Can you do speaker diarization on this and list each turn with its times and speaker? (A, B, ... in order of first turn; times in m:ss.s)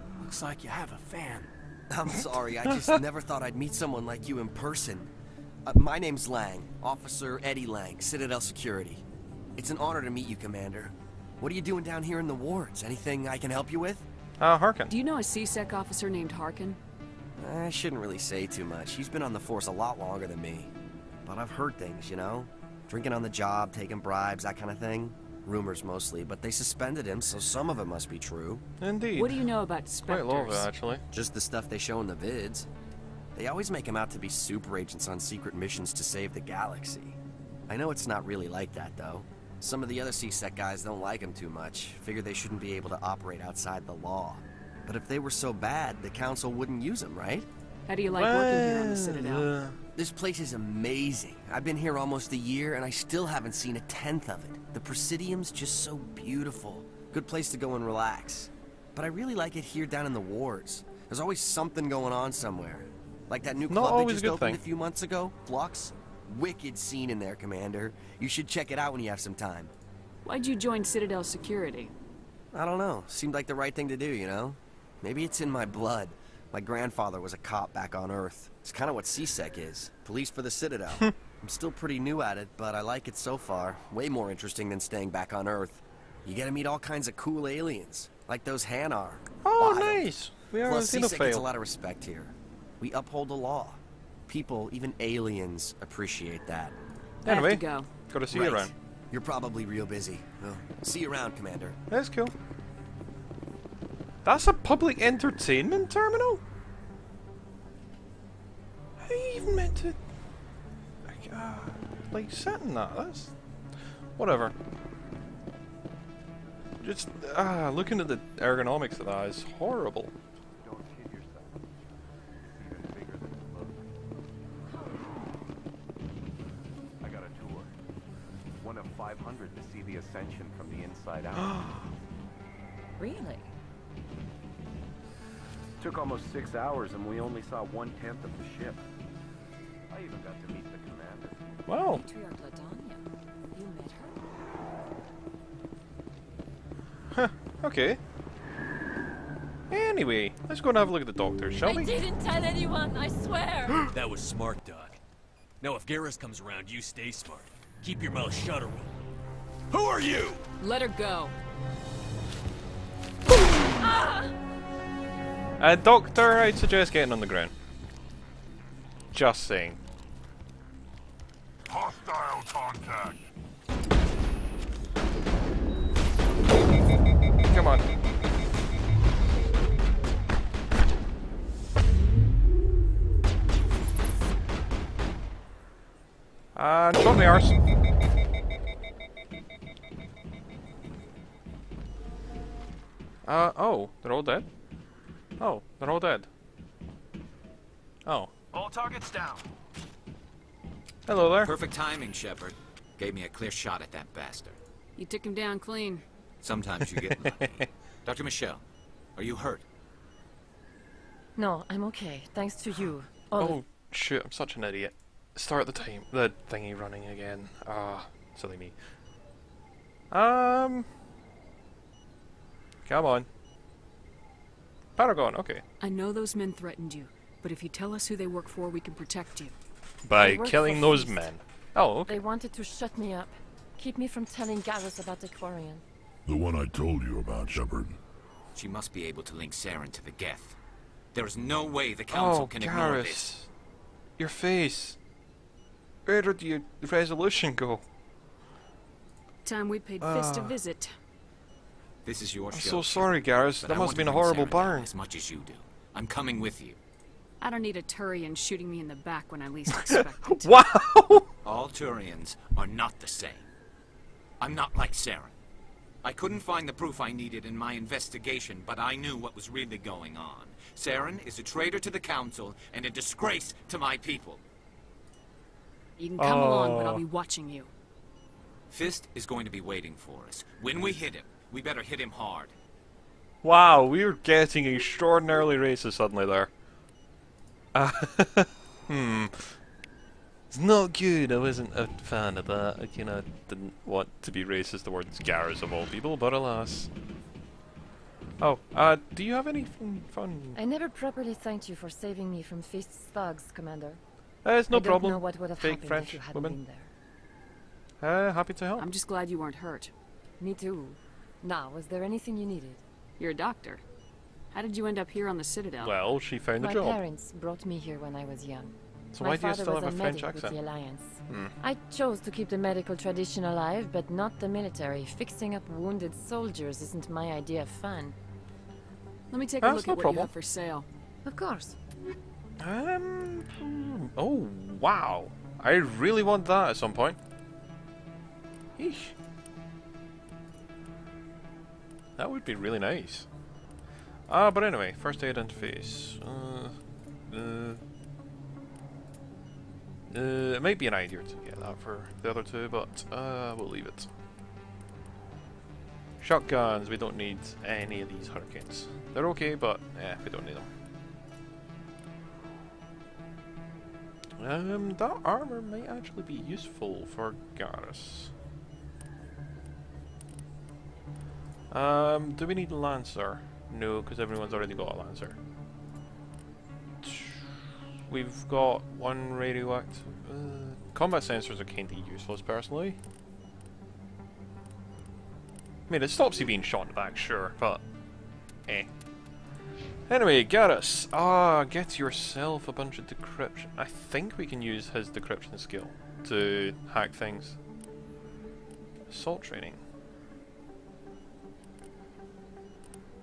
0:00.2-0:01.5 A
0:01.9-0:05.1 B
0:05.6-0:09.0 B
0:09.6-0:14.0 B
0:14.4-0:14.9 C
0:14.9-0:16.8 D
0:17.4-0:20.7 B
0:21.2-0:28.6 B
0:28.8-0:29.5 C
0:29.1-0:30.7 D
0:30.0-0:31.0 C
0:31.1-0:32.7 B
0:33.3-0:47.5 B
0:47.9-0:49.5 D
0:48.1-0:49.8 C
0:50.0-1:09.7 B
1:03.7-1:04.6 C
1:10.2-1:11.9 D
1:12.5-1:30.1 B
1:29.4-1:31.5 C
1:30.6-1:36.8 B
1:37.2-1:37.9 D
1:37.2-1:38.7 C
1:38.3-1:41.8 B
1:41.9-1:42.3 C
1:44.2-1:46.4 C
1:49.0-1:50.0 C
1:51.0-1:53.3 C
1:54.2-1:54.5 C
1:56.8-2:00.1 C
2:00.6-2:01.6 E
2:02.4-2:03.8 E
2:04.7-2:05.2 F
2:07.0-2:07.7 E
2:08.6-2:11.8 E
2:13.0-2:13.5 F
2:15.8-2:18.8 E
2:19.9-2:21.4 E
2:21.7-2:22.0 C
2:21.9-2:23.0 F
2:23.5-2:24.2 F
2:27.1-2:28.0 C
2:29.7-2:32.0 C
2:31.6-2:33.9 F
2:33.9-2:35.0 G
2:35.6-2:38.9 G
2:39.7-2:40.4 G
2:40.6-2:41.3 D
2:45.6-2:47.5 C
2:49.1-2:49.8 C
2:51.7-2:53.2 H
2:57.5-2:57.8 C
3:06.5-3:07.6 C
3:13.2-3:14.5 C
3:15.4-3:16.3 C
3:18.1-3:18.3 C
3:18.5-3:19.4 A
3:21.1-3:21.5 C
3:21.4-3:24.6 I
3:25.0-3:26.0 D
3:26.4-3:28.6 I
3:29.2-3:29.6 I
3:31.4-3:33.6 F
3:33.4-3:38.8 C
3:40.1-3:40.9 C
3:42.8-3:43.3 C
3:45.0-3:45.6 C
3:45.8-3:49.6 D
3:50.0-3:52.2 C
3:50.2-3:51.2 F
3:52.1-3:55.8 F
3:56.3-3:58.0 H
3:58.5-4:00.6 I
4:01.1-4:03.3 I
4:02.1-4:03.5 C
4:04.2-4:05.0 C
4:06.1-4:07.8 C
4:09.4-4:10.9 D
4:10.0-4:10.6 C
4:12.0-4:16.8 I
4:12.5-4:14.9 C
4:17.4-4:20.6 D
4:19.9-4:21.3 C
4:21.4-4:23.5 I
4:24.4-4:25.4 I
4:26.0-4:34.4 I
4:36.0-4:37.7 D
4:36.2-4:37.0 C
4:38.7-4:42.6 I
4:43.4-4:46.5 C
4:47.8-4:49.6 C
4:50.5-4:56.9 C
4:58.4-5:00.6 C
5:00.6-5:04.0 F
5:04.4-5:06.6 C
5:04.7-5:06.9 F
5:08.0-5:08.9 C
5:08.8-5:09.9 D
5:10.4-5:12.8 F
5:13.2-5:13.8 D
5:14.5-5:15.9 D
5:15.8-5:17.0 C
5:16.6-5:28.1 F
5:19.1-5:20.6 C
5:21.3-5:21.5 C
5:29.3-5:30.9 D
5:29.6-5:30.3 C
5:31.2-5:31.8 F
5:32.6-5:37.2 C
5:38.8-5:39.1 C
5:42.2-5:43.3 C
5:44.3-5:46.8 C
5:47.3-5:47.8 C
5:50.1-5:54.1 C
5:56.2-6:00.7 C
6:04.4-6:08.3 C
6:11.7-6:15.4 C
6:17.0-6:23.0 C
6:25.9-6:27.8 C
6:30.1-6:37.6 C
6:39.1-6:39.8 C